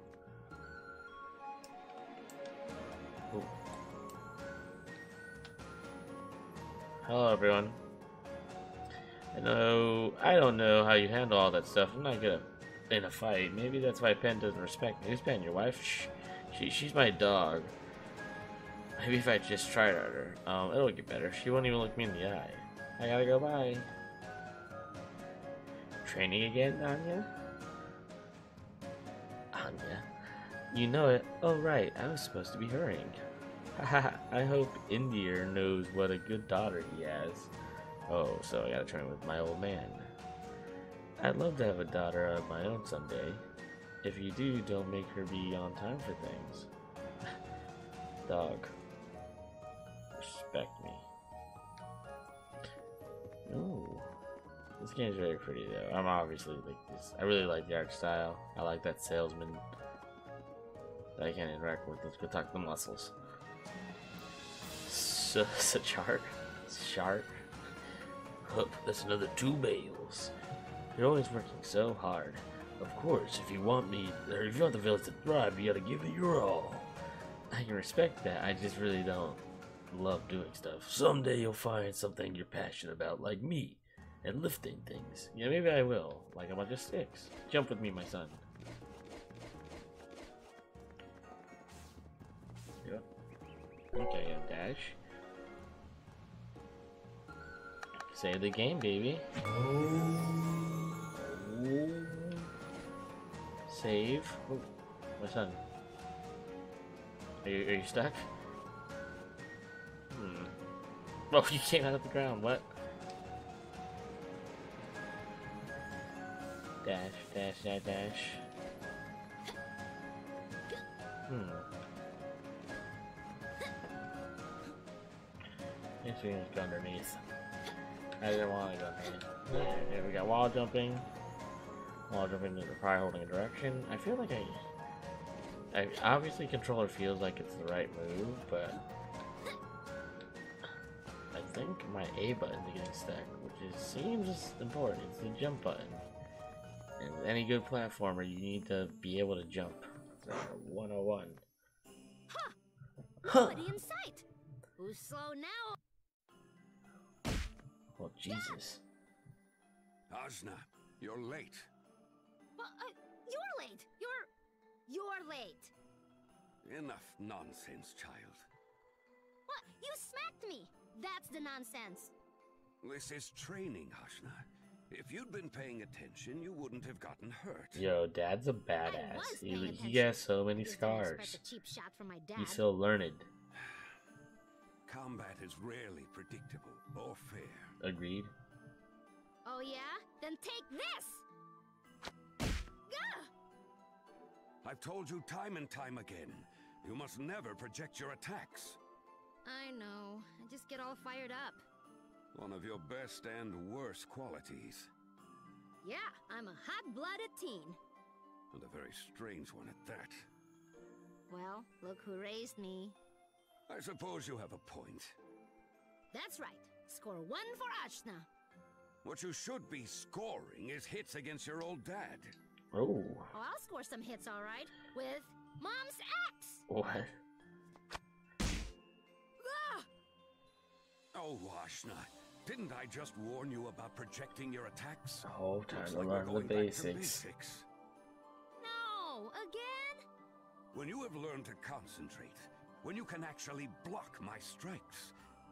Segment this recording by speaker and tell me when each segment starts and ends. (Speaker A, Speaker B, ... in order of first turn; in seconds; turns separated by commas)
Speaker A: 7.0-7.8, Speaker A: 9.3-17.7, Speaker A: 19.0-23.9, Speaker A: 26.0-27.3, Speaker A: 29.5-30.1, Speaker A: 30.7-33.2, Speaker A: 33.8-37.5, Speaker A: 38.1-40.1, Speaker A: 41.2-43.4, Speaker A: 44.0-46.7, Speaker A: 48.2-48.7, Speaker A: 50.2-51.0, Speaker A: 53.5-54.1, Speaker A: 54.8-59.6, Speaker A: 61.2-63.1, Speaker A: 64.8-67.4, Speaker A: 68.4-70.3, Speaker A: 70.9-76.9, Speaker A: 77.5-88.4, Speaker A: 93.9-95.0, Speaker A: 98.1-99.2, Speaker A: 101.1-102.5, Speaker A: 103.7-104.7, Speaker A: 105.2-105.6, Speaker A: 107.4-108.3, Speaker A: 110.1-110.5, Speaker A: 111.3-112.7, Speaker A: 116.8-118.4, Speaker A: 121.3-121.7, Speaker A: 126.0-127.2, Speaker A: 128.2-131.1, Speaker A: 132.1-134.6, Speaker A: 135.7-138.8, Speaker A: 141.3-146.1, Speaker A: 147.0-151.4, Speaker B: 152.3-152.6, Speaker A: 153.2-153.7, Speaker B: 153.2-154.2, Speaker B: 154.8-155.8, Speaker A: 157.9-158.8, Speaker C: 160.1-161.7, Speaker B: 162.6-164.3, Speaker B: 164.9-165.7, Speaker C: 166.6-168.5, Speaker B: 169.5-172.1, Speaker C: 172.8-177.9, Speaker A: 177.7-181.4, Speaker B: 178.8-182.6, Speaker A: 182.3-183.3, Speaker C: 183.6-183.8, Speaker C: 184.8-187.8, Speaker A: 187.8-188.3, Speaker B: 189.4-191.2, Speaker B: 192.9-193.3, Speaker C: 194.6-198.8, Speaker B: 199.4-201.6, Speaker C: 202.3-204.9, Speaker B: 205.8-207.8, Speaker C: 208.5-210.3, Speaker B: 211.3-213.0, Speaker C: 213.7-215.1, Speaker B: 216.1-218.3, Speaker C: 219.0-222.3, Speaker A: 222.7-223.3, Speaker B: 223.3-226.6, Speaker A: 226.7-227.1, Speaker B: 229.4-229.9, Speaker C: 231.1-237.7, Speaker A: 235.2-237.2, Speaker B: 238.6-240.0, Speaker C: 240.7-245.1